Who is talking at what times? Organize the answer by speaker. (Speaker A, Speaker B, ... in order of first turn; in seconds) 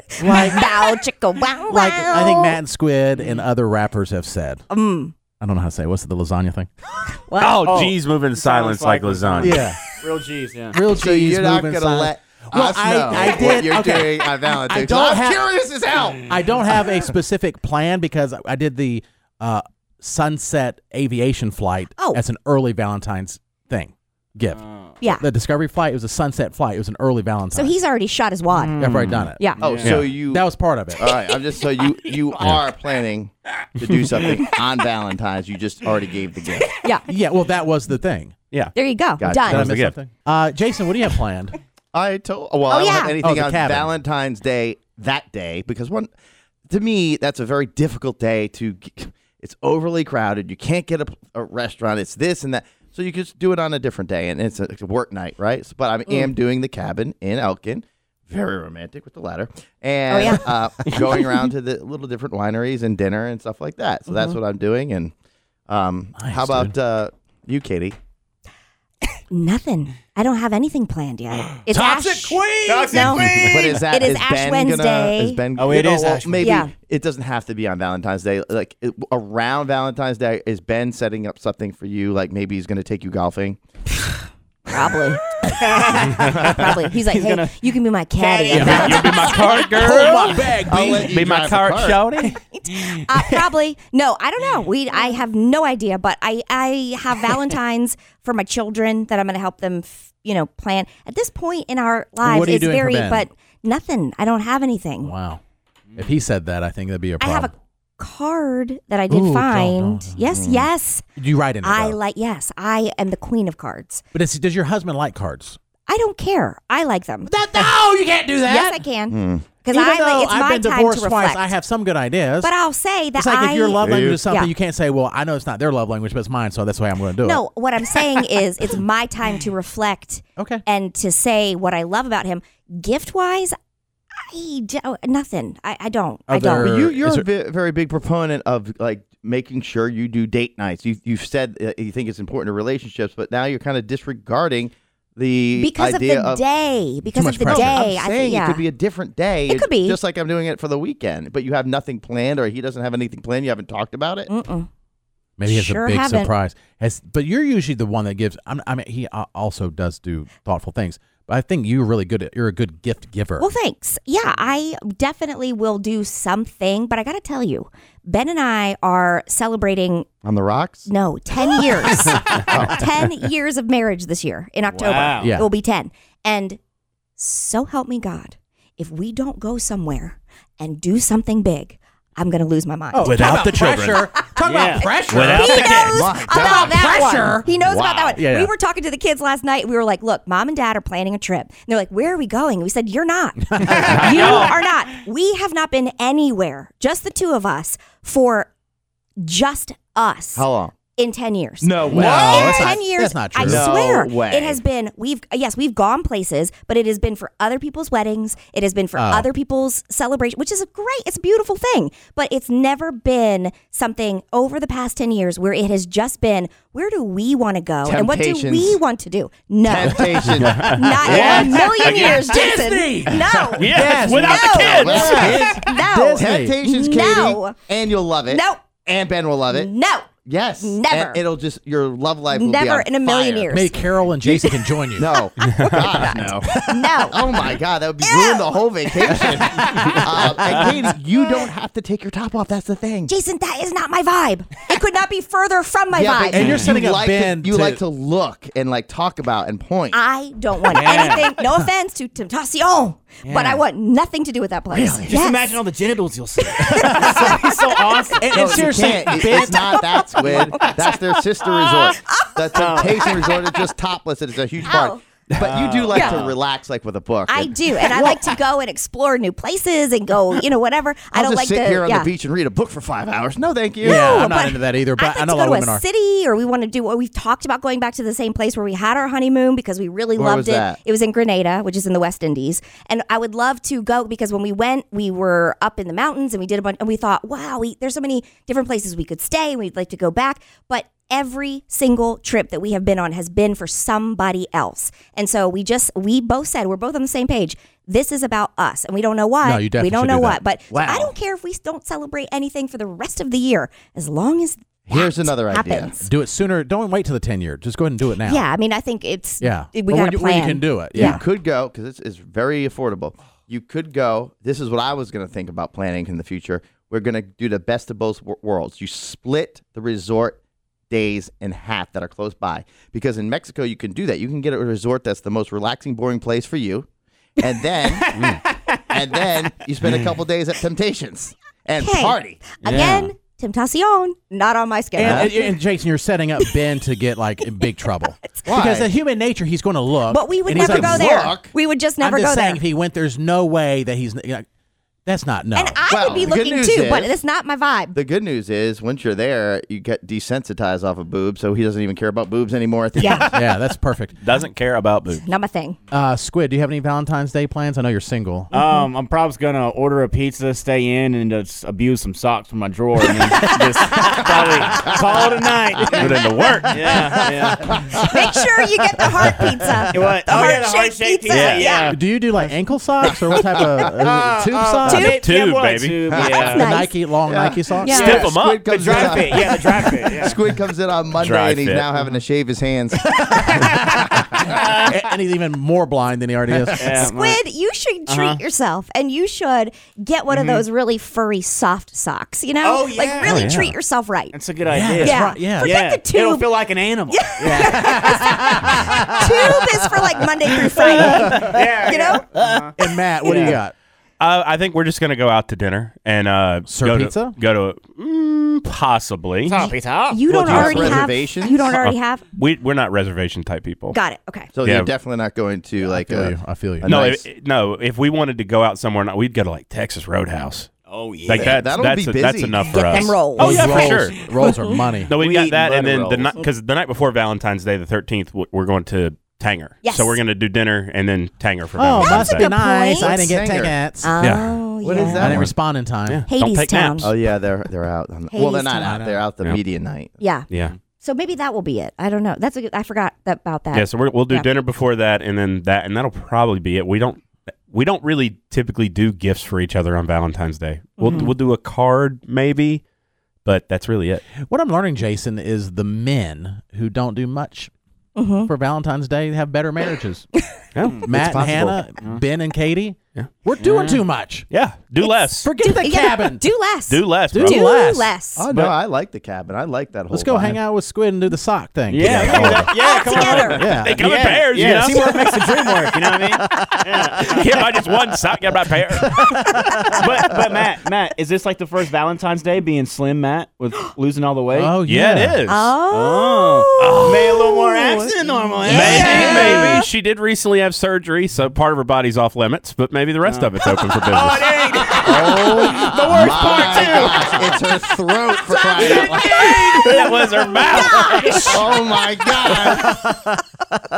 Speaker A: 0.2-0.6, 1.7-4.6, 5.4-6.7, 9.4-9.8, 10.7-15.4, 16.2-27.7, 28.8-31.0, 37.1-38.3, 39.3-41.5, 43.2-43.9, 66.2-66.7, 71.7-73.2, 88.5-91.3, 102.2-103.3, 105.0-105.4, 106.0-107.5, 109.1-110.1, 111.2-112.0, 114.1-115.6, 117.3-118.8, 119.7-122.5, 123.2-128.1, 130.4-130.6, 136.3-137.2, 147.1-147.9, 155.4-163.5, 175.2-175.5, 182.9-187.4, 188.1-188.5, 193.5-194.3, 201.9-203.7, 208.9-209.3, 221.0-226.6, 233.5-235.1, 236.4-236.9, 239.3-240.7, 246.3-247.8, 253.2-253.6, 256.6-257.4, 258.2-260.5, 273.8-275.8, 299.4-300.4, 306.0-308.4, 309.4-311.2, 334.9-341.4, 342.0-344.4, 345.1-345.8, 353.3-354.2, 355.9-358.5, 371.9-375.2, 376.5-378.1, 384.2-387.1, 394.7-395.8, 397.4-399.7, 402.8-403.7, 406.7-407.4, 415.8-417.1, 423.3-425.1, 431.8-434.2, 434.9-436.2, 438.8-439.2, 454.4-457.7, 458.4-460.3, 461.1-464.5, 465.4-466.4, 467.3-468.1, 470.1-472.7, 473.5-474.0, 476.4-476.8, 479.0-480.1, 484.5-485.4, 500.7-501.4, 502.6-503.3
Speaker B: 0.5-2.6, 4.7-5.1, 7.2-7.8, 27.5-28.8, 29.4-29.8, 36.7-37.0, 38.7-39.7, 42.7-43.2, 60.1-61.4, 64.1-64.4, 69.3-75.4, 76.4-76.7, 84.7-90.4, 92.3-105.1, 107.2-111.0, 111.6-114.0, 115.9-117.3, 118.4-121.5, 122.4-124.5, 127.2-133.5, 134.2-136.8, 145.6-148.7, 149.5-150.0, 154.3-154.7, 155.5-156.3, 163.4-170.1, 170.9-176.6, 177.2-183.1, 184.7-198.5, 199.2-227.6, 228.3-228.7, 229.5-231.2, 232.3-234.7, 235.4-237.4, 238.0-239.4, 243.1-246.7, 249.9-255.6, 256.4-257.5, 261.7-263.6, 264.6-265.0, 265.9-266.2, 267.3-272.1, 273.8-306.1, 308.2-311.2, 331.8-335.5, 340.1-342.6, 345.5-347.9, 353.0-353.3, 355.2-355.8, 358.5-358.9, 367.9-372.0, 374.8-375.3, 376.3-376.9, 377.8-378.2, 386.8-394.3, 395.0-402.2, 410.1-412.2, 413.9-414.5, 422.7-424.8, 429.8-430.2, 432.2-433.3, 434.0-435.3, 436.3-437.1, 438.3-439.0, 440.2-444.5, 451.0-451.3, 458.1-458.5, 460.4-460.6, 465.0-468.5, 472.6-473.7, 474.9-475.4, 479.4-479.9, 485.4-489.9, 498.7-499.8
Speaker C: 7.3-9.6, 39.4-40.0, 88.6-92.4, 183.0-184.0, 185.1-186.0, 194.1-194.6, 220.4-222.4, 223.5-225.2, 235.4-236.0, 328.1-328.4, 332.6-333.1, 354.2-355.2, 365.9-367.0, 371.3-371.8, 375.0-376.1, 377.9-379.0, 381.2-381.9, 393.2-393.7, 400.8-401.8, 402.3-402.6, 404.2-409.7, 411.7-414.0, 414.6-414.9, 416.8-420.7, 421.2-424.3, 425.0-432.5, 434.2-434.6, 436.1-437.1, 440.5-440.7, 443.7-452.8, 453.4-454.2, 460.7-461.1, 464.5-465.5, 466.9-467.6, 471.9-475.1, 477.1-479.2, 484.8-485.8, 486.8-487.5, 488.6-494.6, 496.1-497.2, 499.3-501.6
Speaker D: 7.6-10.8, 28.6-28.9, 29.6-30.0, 72.6-73.8, 75.5-76.6, 85.4-87.5, 88.2-88.8, 174.7-175.3, 184.4-184.9, 250.7-251.3, 255.0-258.8, 260.2-260.8, 262.5-263.0, 265.4-266.4, 328.0-328.8, 358.5-368.0, 369.9-372.0, 373.8-376.7, 377.9-380.4, 383.3-385.0, 386.8-387.4, 388.1-388.4, 390.3-390.6, 392.6-393.4, 394.3-398.1, 401.1-403.6, 409.4-410.2, 420.9-421.4, 463.6-464.0, 471.9-477.9, 479.9-484.8, 485.9-489.8, 493.2-497.6, 498.8-501.0
Speaker E: 10.9-16.3, 28.8-36.8, 39.2-39.6, 41.9-46.1, 46.7-65.1, 65.7-68.0, 73.2-83.6, 84.7-85.0, 86.2-86.7, 90.7-92.0, 110.3-110.7, 119.1-119.5, 123.8-124.2, 136.6-146.4, 147.4-154.3, 170.2-170.9, 172.4-172.9, 185.8-187.0, 187.5-188.2, 193.8-194.4, 200.3-200.7, 201.6-202.7, 203.4-204.6, 217.8-218.8, 219.6-221.6, 224.6-225.6, 226.1-229.7, 230.2-233.5, 234.9-243.1, 245.9-250.0, 254.7-255.1, 258.3-267.5, 271.1-274.2, 280.1-280.8, 300.7-301.1, 304.9-306.0, 310.9-320.4, 320.9-326.9, 327.4-332.6, 335.0-335.3, 338.4-338.9, 340.5-341.5, 345.9-347.1, 347.9-353.4, 366.9-368.2, 376.1-376.6, 377.2-384.4, 410.3-411.7, 414.5-417.2, 421.3-423.1, 425.1-426.3, 433.0-433.8, 434.8-435.5, 437.0-440.2, 461.0-461.8, 468.4-470.6, 495.0-499.5, 501.5-503.0